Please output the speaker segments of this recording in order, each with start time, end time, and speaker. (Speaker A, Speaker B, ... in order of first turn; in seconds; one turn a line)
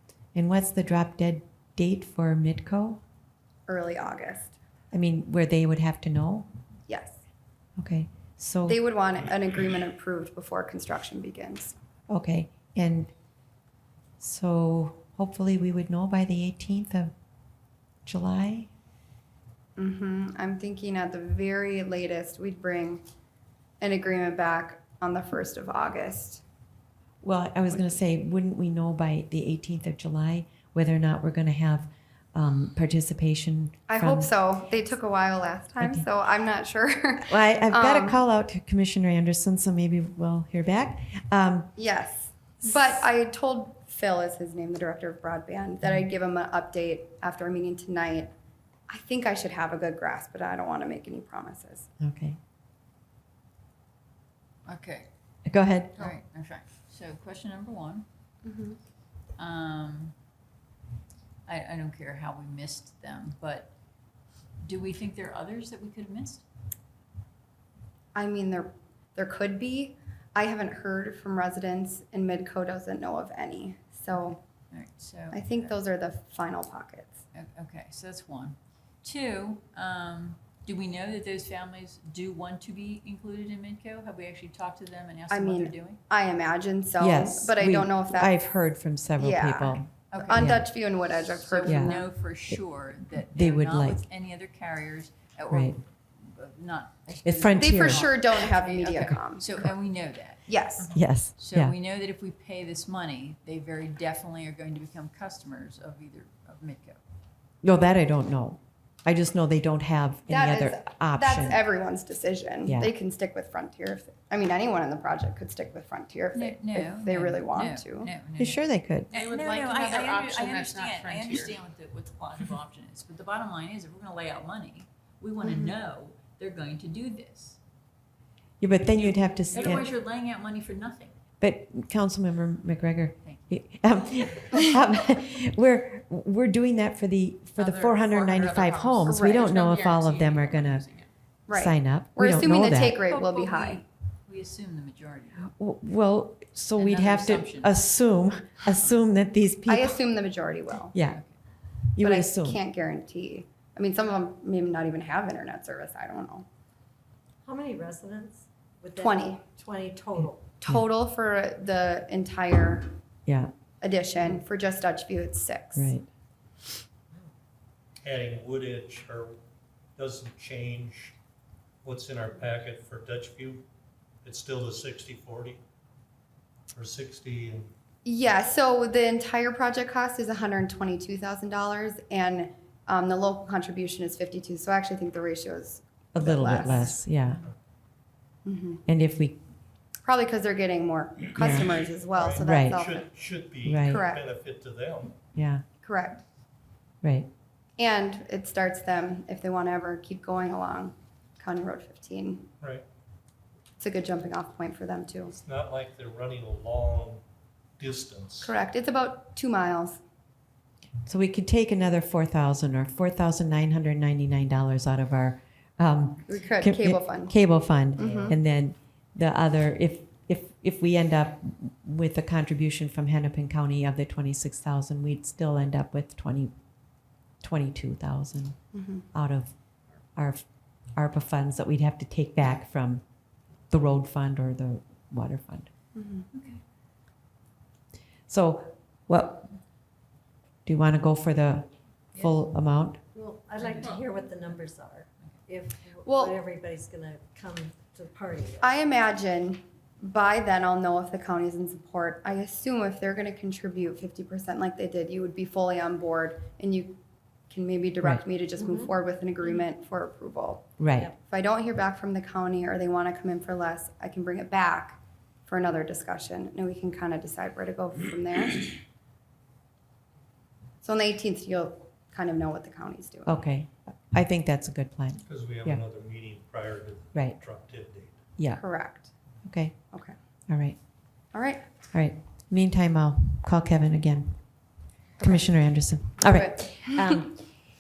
Speaker A: 0.3-3.0
Speaker B: 3.7-4.6
Speaker A: 4.9-6.5
Speaker B: 6.9-7.2
Speaker A: 7.8-8.8
Speaker B: 8.7-11.8
Speaker A: 12.1-13.1
Speaker A: 14.2-17.1
Speaker A: 18.1-18.7
Speaker B: 19.8-23.0
Speaker B: 23.8-26.4
Speaker A: 27.2-34.4
Speaker B: 33.9-38.2
Speaker A: 35.8-36.0
Speaker A: 37.3-41.7
Speaker B: 41.8-48.3
Speaker B: 48.9-51.9
Speaker A: 52.0-52.4
Speaker C: 54.6-55.1
Speaker A: 55.5-56.0
Speaker C: 56.0-58.1
Speaker B: 58.4-58.8
Speaker C: 59.4-60.1
Speaker C: 61.5-63.7
Speaker C: 64.6-66.5
Speaker B: 68.2-74.4
Speaker C: 74.7-75.7
Speaker B: 75.3-77.2
Speaker C: 77.3-86.0
Speaker B: 85.3-88.4
Speaker A: 87.0-90.7
Speaker B: 89.2-92.1
Speaker C: 90.1-90.6
Speaker C: 91.4-100.5
Speaker A: 91.7-92.0
Speaker A: 93.3-94.0
Speaker A: 95.5-95.8
Speaker A: 97.2-98.1
Speaker B: 97.6-99.5
Speaker B: 100.5-101.0
Speaker A: 100.9-101.8
Speaker C: 101.3-107.0
Speaker A: 107.6-111.6
Speaker B: 110.3-118.1
Speaker A: 112.7-112.9
Speaker C: 116.3-127.6
Speaker A: 118.4-119.1
Speaker D: 119.1-121.6
Speaker B: 125.4-125.8
Speaker A: 128.6-129.9
Speaker C: 128.9-131.2
Speaker A: 131.4-140.9
Speaker C: 133.2-133.5
Speaker D: 137.6-141.1
Speaker B: 139.1-139.5
Speaker B: 141.5-143.8
Speaker A: 141.5-143.0
Speaker C: 143.0-145.5
Speaker A: 145.5-150.0
Speaker C: 146.8-147.8
Speaker B: 149.7-150.9
Speaker A: 150.9-151.2
Speaker C: 151.0-151.3
Speaker A: 151.9-152.6
Speaker B: 152.0-156.4
Speaker E: 157.4-160.5
Speaker B: 159.0-159.4
Speaker B: 160.6-162.9
Speaker A: 163.3-163.5
Speaker B: 163.8-165.9
Speaker A: 165.8-166.1
Speaker F: 168.0-169.4
Speaker F: 170.0-171.2
Speaker F: 171.8-173.6
Speaker F: 174.2-175.6
Speaker F: 176.7-177.7
Speaker B: 178.1-187.1
Speaker A: 186.1-187.4
Speaker B: 188.4-188.8
Speaker A: 188.9-189.4
Speaker B: 190.1-193.1
Speaker A: 191.4-191.7
Speaker F: 192.0-195.2
Speaker A: 192.4-192.8
Speaker A: 193.7-194.0
Speaker B: 193.9-194.2
Speaker A: 195.3-195.6
Speaker B: 195.8-196.2
Speaker A: 197.0-197.3
Speaker B: 197.8-202.5
Speaker B: 203.8-205.3
Speaker F: 205.3-207.2
Speaker F: 207.8-208.5
Speaker B: 208.4-210.0
Speaker A: 211.1-226.5
Speaker B: 216.3-217.3
Speaker B: 218.0-218.3
Speaker F: 218.0-218.3
Speaker A: 227.4-228.6
Speaker B: 228.7-229.1
Speaker A: 229.1-229.6
Speaker A: 230.2-230.4
Speaker A: 230.9-233.0
Speaker A: 233.7-235.7
Speaker B: 235.9-236.3
Speaker C: 236.3-236.6
Speaker A: 238.3-239.6
Speaker A: 240.7-243.0
Speaker C: 242.1-242.4
Speaker E: 243.1-248.8
Speaker C: 243.6-244.0
Speaker B: 246.1-246.3
Speaker B: 248.6-257.0
Speaker B: 257.5-260.7
Speaker E: 258.6-258.9
Speaker A: 260.8-261.1
Speaker B: 261.3-268.8
Speaker B: 270.8-273.4
Speaker A: 273.3-275.8
Speaker F: 275.3-278.2
Speaker A: 278.4-278.6
Speaker B: 278.6-279.1
Speaker A: 279.5-279.8
Speaker A: 280.5-280.8
Speaker B: 281.3-281.7
Speaker A: 281.9-284.4
Speaker A: 285.2-287.6
Speaker B: 286.2-287.2